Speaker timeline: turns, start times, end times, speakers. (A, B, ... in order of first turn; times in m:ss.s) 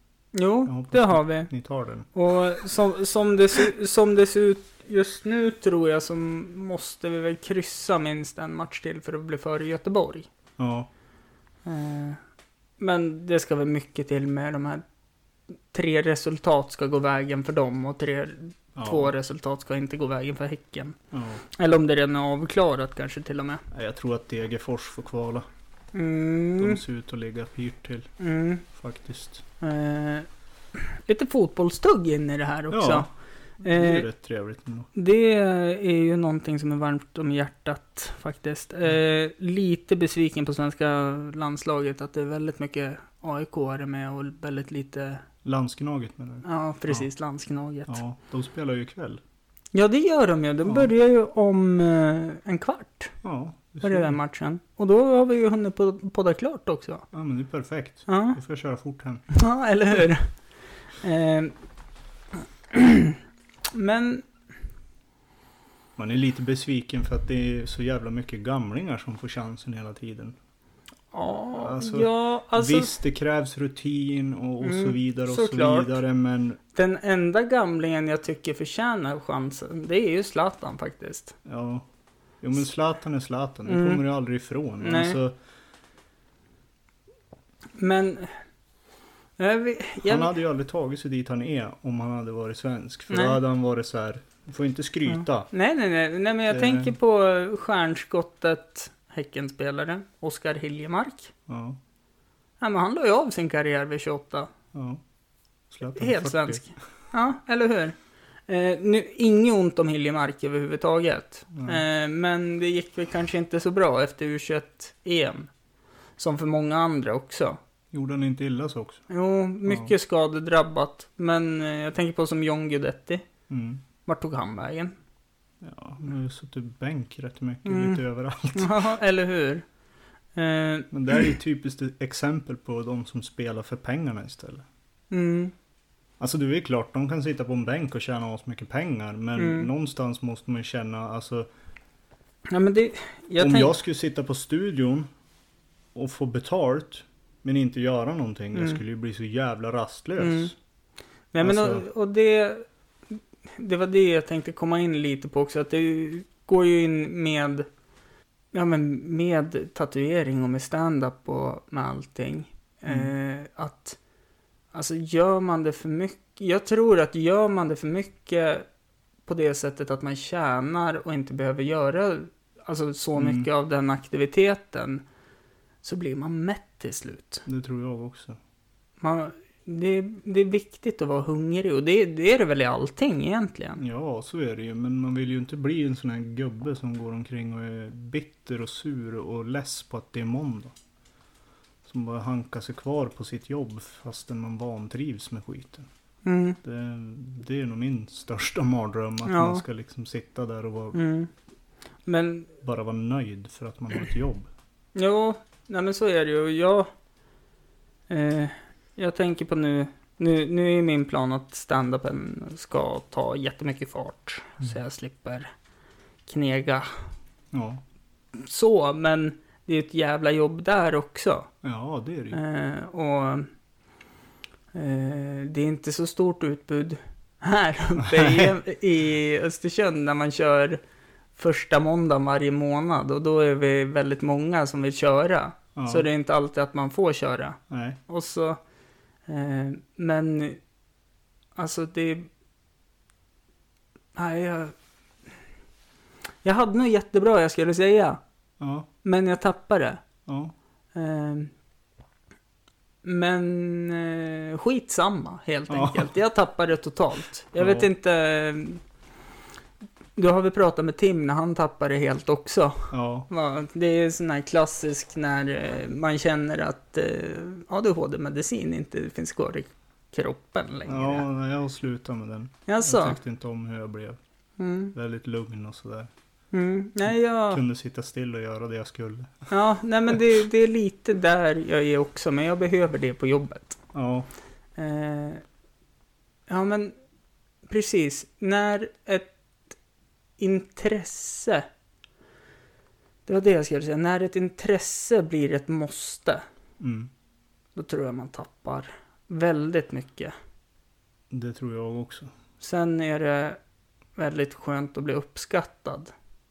0:00.3-0:01.5 A
0:00.6-0:02.1 B
0:02.1-0:10.3 A
0:10.6-0:10.9 B
0:11.6-0:12.2 A
0:12.8-0:14.8 A
0:15.7-0:21.0 A
0:18.8-0:19.1 B
0:21.1-0:21.4 B
0:21.5-0:23.6 A
0:23.7-0:25.4 B
0:25.9-0:26.8 A
0:26.6-0:28.1 B
0:28.2-0:28.6 A
0:28.7-0:29.4 B
0:29.6-0:33.1 A
0:32.7-0:33.1 B
0:33.6-0:34.0 A
0:33.6-0:34.9 B
0:34.9-0:45.2 A
0:45.4-0:47.1 B
0:46.4-0:48.0 A
0:47.9-0:49.2 B
0:49.7-0:53.1 A
0:50.6-0:50.9 B
0:53.2-0:54.2 B
0:53.8-0:57.0 A
0:57.1-0:59.2 B
0:58.1-0:58.4 A
0:59.3-1:00.3 A
1:01.0-1:01.5 A
1:02.7-1:03.2 A
1:03.7-1:04.3 A
1:06.0-1:10.4 B
1:11.1-1:12.9 A
1:11.5-1:16.6 B
1:14.6-1:16.0 A
1:16.7-1:21.4 A
1:21.4-1:21.8 B
1:22.4-1:25.4 B
1:23.7-1:24.0 A
1:24.8-1:25.2 A
1:27.8-1:28.4 A
1:29.4-1:30.3 A
1:30.0-1:35.5 B
1:33.1-1:33.4 A
1:35.1-1:41.3 A
1:36.5-1:36.9 B
1:41.5-1:41.8 B
1:42.6-1:44.5 A
1:44.7-1:45.0 B
1:45.7-1:46.7 B
1:46.0-1:47.9 A
1:48.5-1:55.5 A
1:51.5-1:51.8 B
1:56.2-1:57.6 A
1:57.9-1:59.0 B
1:59.1-2:03.2 A
1:59.6-1:59.9 B
2:03.5-2:03.8 B
2:04.0-2:04.9 A
2:05.6-2:08.8 B
2:07.6-2:08.0 A
2:08.5-2:09.6 A
2:10.3-2:11.3 A
2:10.9-2:14.6 B
2:15.1-2:15.5 A
2:16.2-2:21.5 B
2:19.4-2:19.7 A
2:22.5-2:23.8 A
2:23.4-2:25.1 B
2:25.9-2:30.5 B
2:28.5-2:28.8 A
2:30.2-2:30.5 A
2:31.3-2:32.6 A
2:31.4-2:31.8 B
2:33.5-2:37.7 A
2:38.5-2:44.0 A
2:42.9-2:43.1 B
2:44.7-2:48.6 A
2:49.3-2:55.0 A
2:53.2-2:53.5 B
2:55.8-2:57.4 A
2:57.4-2:58.4 B
2:59.0-3:03.8 A
3:03.8-3:10.7 B
3:11.8-3:15.9 B
3:16.2-3:16.6 A
3:16.6-3:21.0 B
3:19.2-3:19.6 A
3:20.9-3:21.3 A
3:22.0-3:22.5 A
3:22.6-3:24.5 B
3:24.9-3:26.9 A
3:28.1-3:35.5 A
3:36.3-3:36.9 A
3:37.5-3:37.8 B
3:38.3-3:41.5 A
3:41.6-3:42.4 B
3:42.3-3:43.5 A
3:44.7-3:50.8 A
3:48.0-3:48.6 B
3:51.4-3:58.6 A
3:55.8-3:56.0 B
3:57.7-3:58.0 B
3:59.3-4:00.6 A
4:01.6-4:02.3 A
4:04.2-4:04.7 A
4:06.4-4:08.2 A
4:08.6-4:08.9 B
4:09.0-4:10.0 A
4:10.2-4:10.5 B
4:10.9-4:11.5 A
4:13.0-4:18.8 A
4:15.7-4:16.1 B
4:17.6-4:17.9 B
4:20.2-4:31.2 A
4:22.9-4:23.3 B
4:30.8-4:34.2 B
4:32.7-4:33.2 A
4:34.6-4:34.9 A
4:34.9-4:36.1 B
4:36.5-4:37.6 A
4:37.0-4:39.5 B
4:39.5-4:43.8 A
4:43.9-4:44.3 B
4:44.8-4:45.4 A
4:46.5-4:46.9 A
4:47.7-4:49.3 A
4:50.4-4:51.7 A
4:53.2-4:56.4 A
4:56.8-4:57.1 B
4:57.8-5:00.3 A
5:01.3-5:02.3 B
5:02.6-5:03.6 A
5:04.2-5:06.1 A